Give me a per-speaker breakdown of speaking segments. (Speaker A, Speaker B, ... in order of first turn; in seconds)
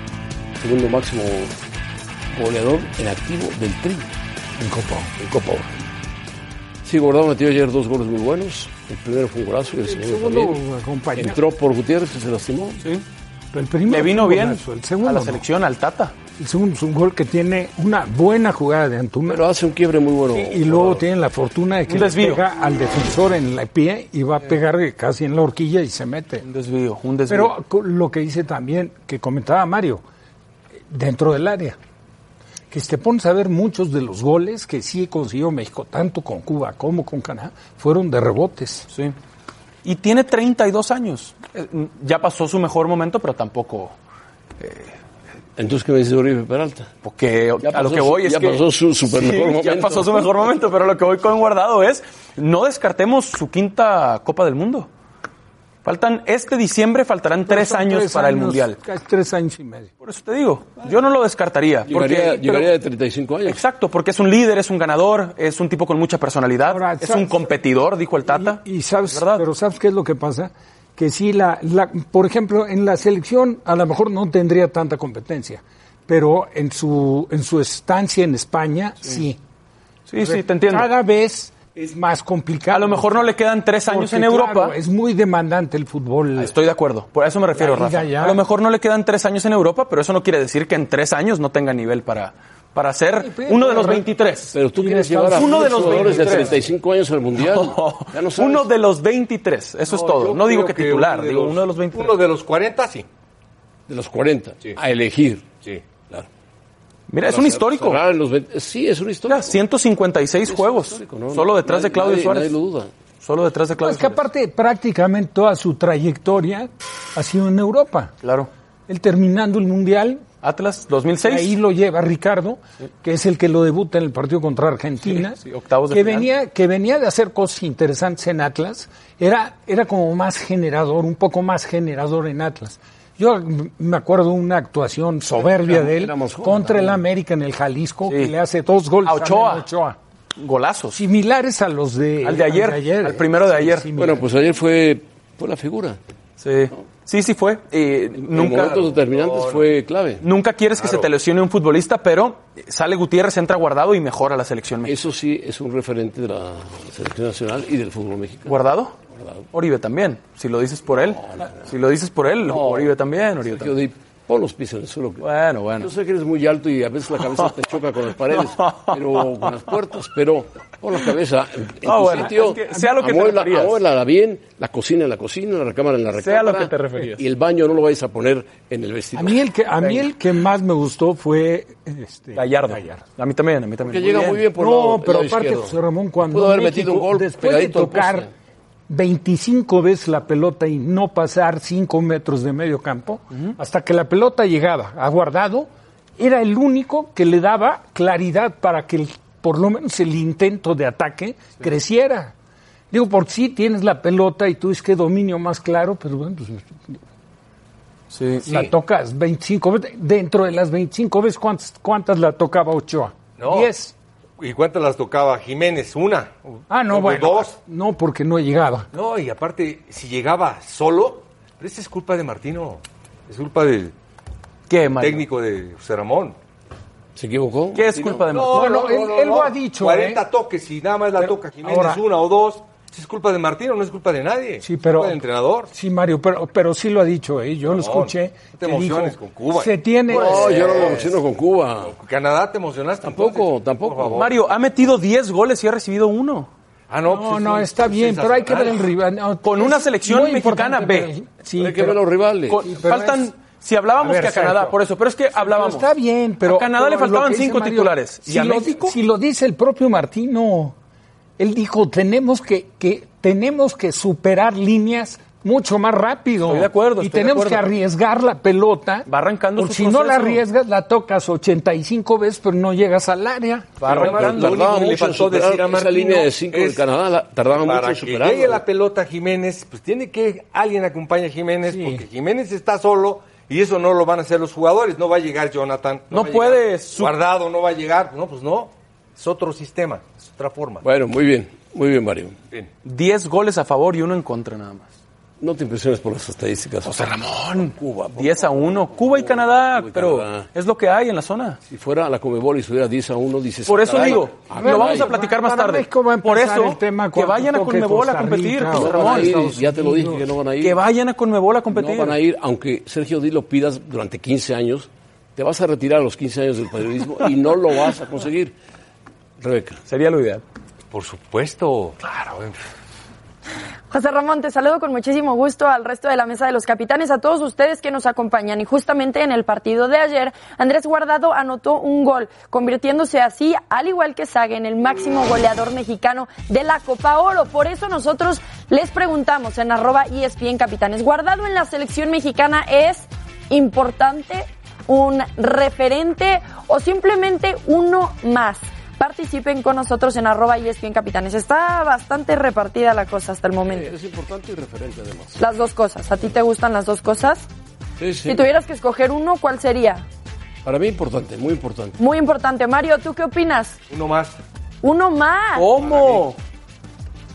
Speaker A: 0.6-1.5, 2.3-4.1, 6.8-10.6, 11.2-12.9, 19.3-21.0, 45.6-46.9, 47.6-50.4, 61.9-63.6, 94.5-98.7, 103.9-105.5, 106.0-106.3, 107.2-109.6, 110.4-112.9, 135.4-137.0, 143.9-146.0, 148.3-150.2, 154.8-158.6, 159.1-159.5, 160.9-161.6, 162.4-165.3, 165.8-180.0, 183.8-188.3, 227.2-228.3, 240.1-241.9, 243.0-244.3, 251.6-252.7, 273.9-278.6, 290.8-292.4, 295.4-300.5, 301.7-305.2, 308.7-310.8, 311.7-318.6, 319.4-319.8, 353.7-355.4, 358.0-358.5, 360.6-362.0
Speaker B: 4.6-5.7, 9.8-11.4, 13.5-15.4, 16.4-19.4, 20.3-26.4, 27.3-30.0, 30.9-31.8, 32.7-38.9, 57.5-59.9, 66.7-67.5, 68.3-79.4, 80.2-83.3, 83.9-86.5, 87.5-88.4, 93.2-96.6, 113.8-118.1, 118.9-120.2, 121.2-140.0, 140.9-144.2, 179.1-183.0, 184.6-188.3, 188.9-202.3, 202.9-207.0, 208.4-213.9, 216.7-218.9, 228.5-230.2, 231.2-232.0, 234.6-240.9, 247.1-252.0, 252.7-253.3, 254.0-254.8, 255.3-260.8, 261.4-273.7, 281.7-282.0, 304.5-310.3
Speaker C: 13.9-16.1, 21.9-22.4, 26.4-27.5, 38.9-39.2, 39.8-44.0, 44.6-44.9, 47.0-54.9, 55.9-58.8, 60.0-62.7, 63.5-69.5, 80.1-80.9, 82.7-84.8, 86.4-94.5, 95.3-96.6, 97.4-102.2, 107.1-108.0, 109.3-112.5, 113.2-114.2, 118.2-118.5, 120.4-121.5, 125.0-126.3, 138.1-138.3, 139.1-139.7, 140.4-141.0, 142.2-143.9, 146.4-148.8, 150.2-155.0, 158.5-158.9, 159.5-163.8, 165.2-165.9, 168.3-169.5, 171.8-173.8, 176.2-177.2, 182.3-184.4, 208.1-208.5, 224.7-225.2, 227.8-228.9, 244.1-246.5, 249.4-251.1, 252.5-255.9, 256.4-258.9, 266.5-267.7, 269.1-270.4, 273.8-274.6, 286.1-287.1, 292.8-294.9, 296.8-301.6, 303.7-309.4, 310.6-312.2, 319.9-320.4, 365.6-366.4
Speaker D: 99.9-103.1, 148.4-149.7, 213.4-213.7, 214.4-217.6, 218.9-223.9, 225.0-226.4, 228.2-235.7, 237.7-241.2, 241.8-244.3, 246.9-248.9, 273.9-276.9, 277.5-290.9, 320.9-322.6, 363.9-364.4
Speaker E: 323.9-353.9, 355.4-357.5, 358.3-360.0, 362.0-363.8, 364.8-365.7